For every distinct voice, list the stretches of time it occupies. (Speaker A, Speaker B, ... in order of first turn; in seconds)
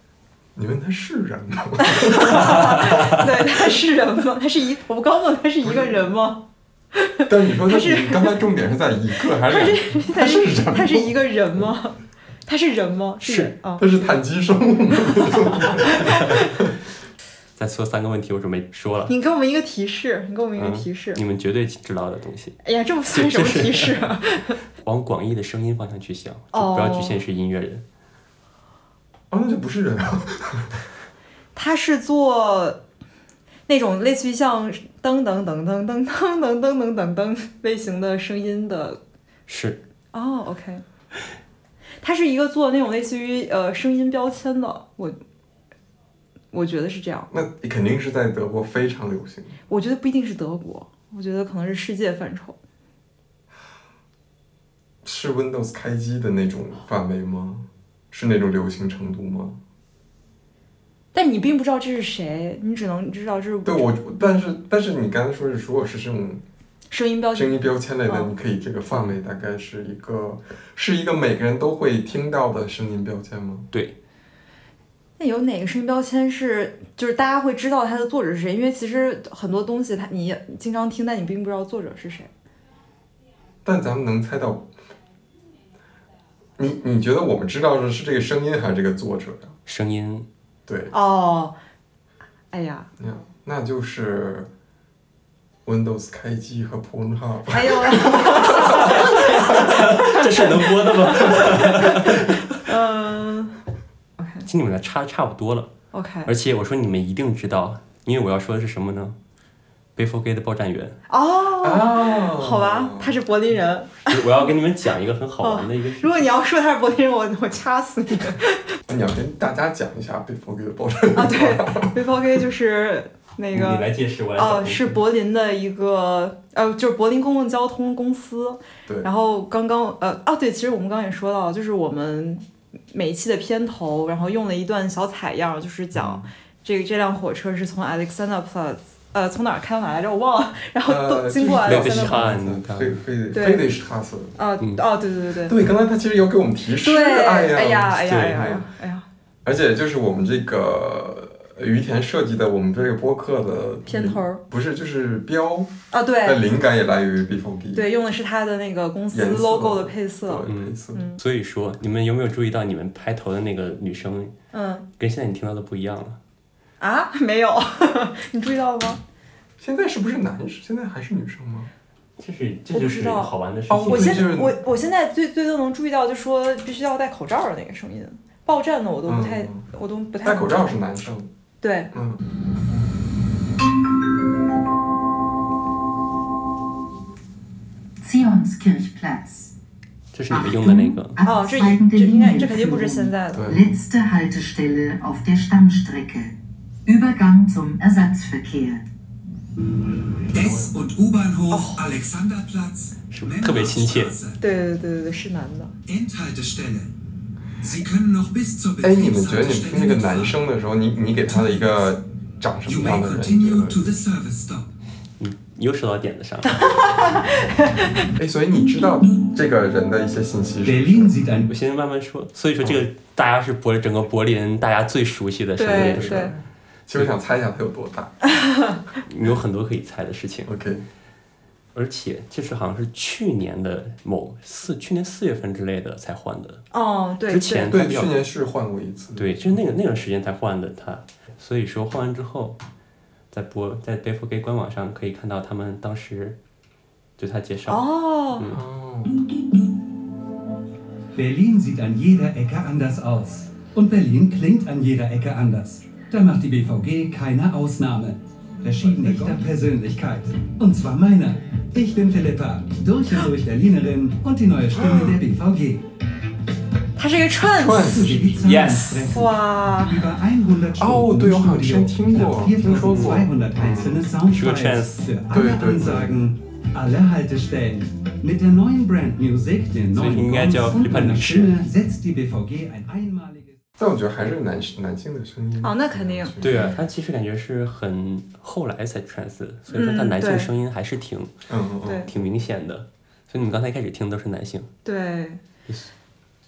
Speaker A: 0.6-2.9, 7.2-11.6, 13.8-16.5, 29.3-30.7, 47.3-49.6, 55.0-59.6, 63.6-66.4, 67.3-73.7, 83.6-84.7, 86.6-89.6, 90.7-90.9, 93.0-94.5, 95.6-99.4, 111.6-113.2, 118.9-121.9, 135.9-136.3, 140.8-144.3, 145.4-148.7, 149.4-155.7, 156.2-157.8, 159.1-161.0, 169.6-171.7, 173.7-174.5, 179.1-179.7, 180.2-181.3, 181.9-182.2, 193.3-193.6, 200.3-200.7, 208.8-213.8, 218.1-221.2, 225.7-228.2, 230.4-230.8, 237.7-239.6, 248.5-249.2, 264.7-265.2, 267.6-268.3, 270.8-274.1, 275.3-276.1, 283.8-286.8, 291.5-292.1
Speaker B: 1.8-8.5, 9.3-13.8, 15.9-16.5, 19.1-21.2, 22.6-24.6, 26.5-27.2, 31.5-32.8, 33.7-39.0, 40.1-40.8, 42.0-45.1, 46.5-47.3, 49.7-52.6, 61.1-64.4, 66.9-68.3, 75.2-82.3, 90.9-91.5, 92.5-92.9, 97.5-103.6, 104.2-104.5, 105.9-106.3, 111.1-114.5, 115.4-118.8, 121.1-142.3, 143.3-143.7, 144.4-145.6, 146.8-149.1, 153.9-154.4, 155.9-156.4, 157.7-161.2, 164.5-164.9, 166.8-169.0, 172.7-173.3, 173.8-180.7, 181.6-181.9, 191.2-193.4, 201.5-201.9, 204.4-205.8, 216.5-218.1, 225.6-226.3, 228.3-228.8, 236.7-237.8, 247.7-248.5, 267.0-268.2, 269.1-270.1, 285.6-286.3, 289.7-290.5, 291.9-292.1, 294.8-295.4
Speaker C: 2.3-3.3, 13.2-13.5, 17.6-19.1, 20.6-22.6, 23.1-24.1, 24.8-27.8, 39.5-39.8, 89.7-90.2, 98.5-102.5, 104.4-105.7, 106.2-109.2, 110.0-111.0, 114.1-116.3, 123.5-125.0, 141.6-143.0, 160.4-164.3, 165.0-166.2, 172.2-174.3, 190.1-191.2, 203.1-204.2, 215.2-216.9, 221.5-226.3, 229.0-230.5, 231.7-236.6, 237.3-238.1, 239.2-242.6, 243.3-246.4, 247.2-248.6, 268.4-269.2, 274.2-275.1, 279.9-281.6, 286.4-291.3, 291.9-294.7
Speaker D: 188.0-189.5, 190.3-196.3, 196.8-198.8
Speaker E: 200.3-204.4, 205.9-206.9, 207.6-210.4, 211.3-211.8, 212.7-214.7, 220.6-221.5, 251.1-265.8, 267.7-283.6